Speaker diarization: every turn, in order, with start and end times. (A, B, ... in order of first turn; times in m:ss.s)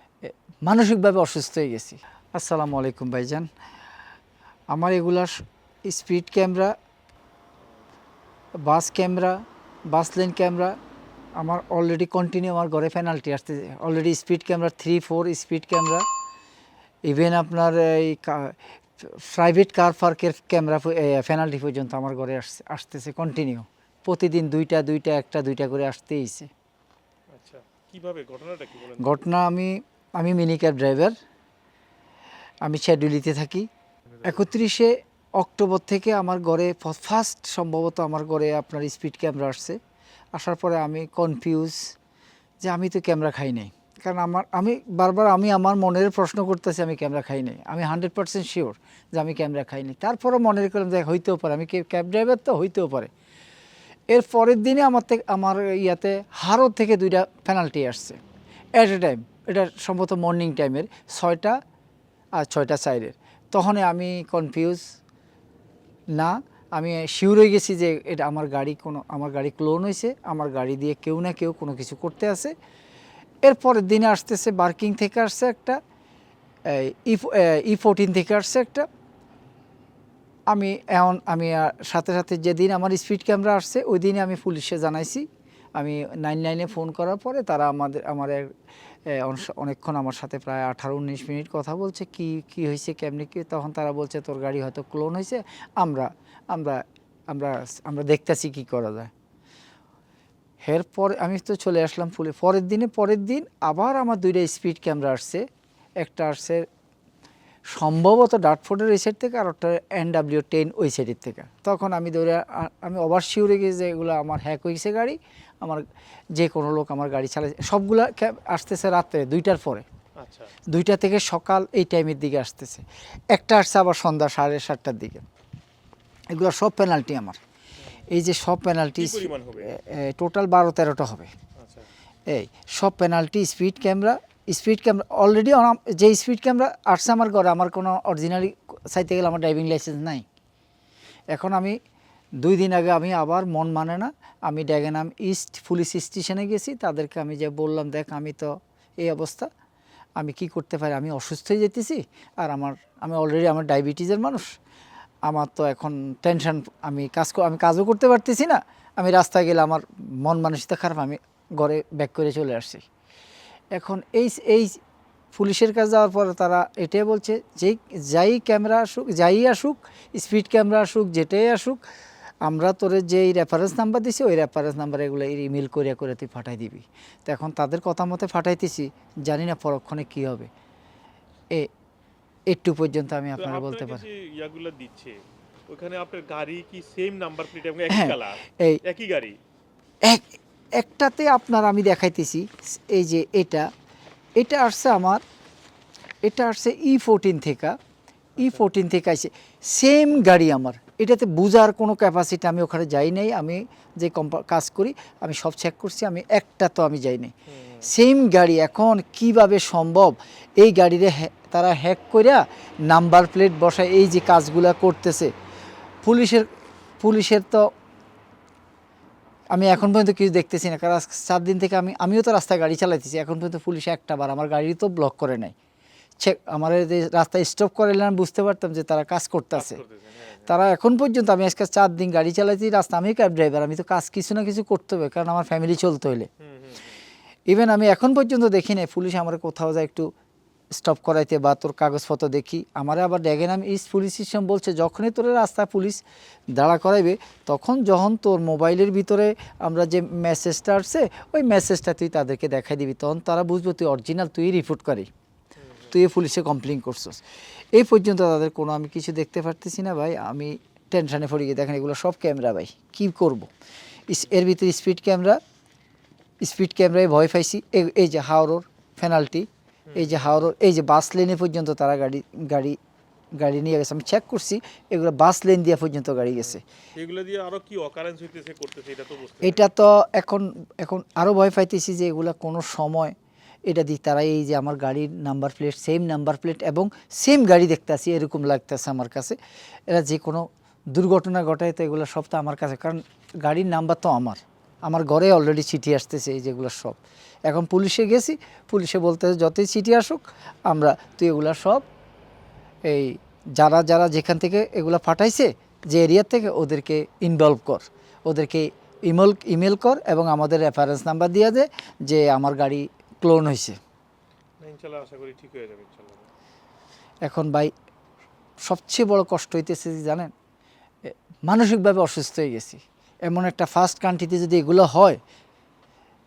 0:00.2-0:03.5 A
0:04.7-0:06.7 A
0:08.6-0:10.8 A
0:11.4-0:16.1 A
0:17.0-0:26.5 A
0:27.3-0:29.2 B
0:29.0-0:31.2 A
0:32.6-0:33.7 A
0:34.1-0:34.5 B
0:34.2-0:39.8 A
0:40.3-0:41.9 A
0:42.6-0:53.1 A
0:54.1-0:58.2 A
0:58.8-1:01.6 A
1:02.4-1:04.9 A
1:06.1-1:12.5 A
1:13.4-1:15.8 A
1:16.6-1:18.9 A
1:20.5-1:28.5 A
1:29.1-1:39.1 A
1:40.6-1:45.5 A
1:46.0-1:46.6 A
1:47.7-1:55.8 A
1:56.4-1:59.8 A
2:00.2-2:00.5 B
2:00.7-2:05.2 A
2:06.3-2:07.4 A
2:08.1-2:11.3 A
2:09.0-2:09.7 B
2:11.6-2:11.9 B
2:12.3-2:20.2 A
2:21.3-2:21.8 A
2:22.4-2:29.5 A
2:30.2-2:34.5 A
2:35.3-2:42.8 A
2:43.7-2:44.8 A
2:45.3-2:51.8 A
2:52.4-3:00.5 A
3:02.5-3:04.0 A
3:03.4-3:09.4 B
3:07.9-3:08.8 A
3:10.0-3:13.7 A
3:14.4-3:15.2 A
3:16.2-3:17.8 A
3:18.4-3:27.3 A
3:27.5-3:27.9 B
3:27.8-3:35.3 A
3:36.0-3:36.5 A
3:37.0-3:37.7 A
3:39.5-3:45.5 A
3:46.2-3:49.8 A
3:49.5-3:50.6 B
3:50.5-3:56.3 A
3:56.4-3:57.0 B
3:57.5-4:00.1 A
4:00.8-4:06.0 A
4:06.5-4:15.1 A
4:15.6-4:16.0 B
4:15.9-4:17.2 A
4:17.7-4:23.5 A
4:24.1-4:25.4 A
4:26.4-4:32.8 A
4:29.9-4:30.5 B
4:33.4-4:36.6 A
4:36.4-4:39.7 B
4:39.4-4:43.2 A
4:43.7-4:49.4 A
4:49.9-5:01.8 A
5:02.9-5:13.8 A
5:14.6-5:16.3 B
5:17.2-5:17.7 A
5:18.6-5:20.3 A
5:21.0-5:25.2 A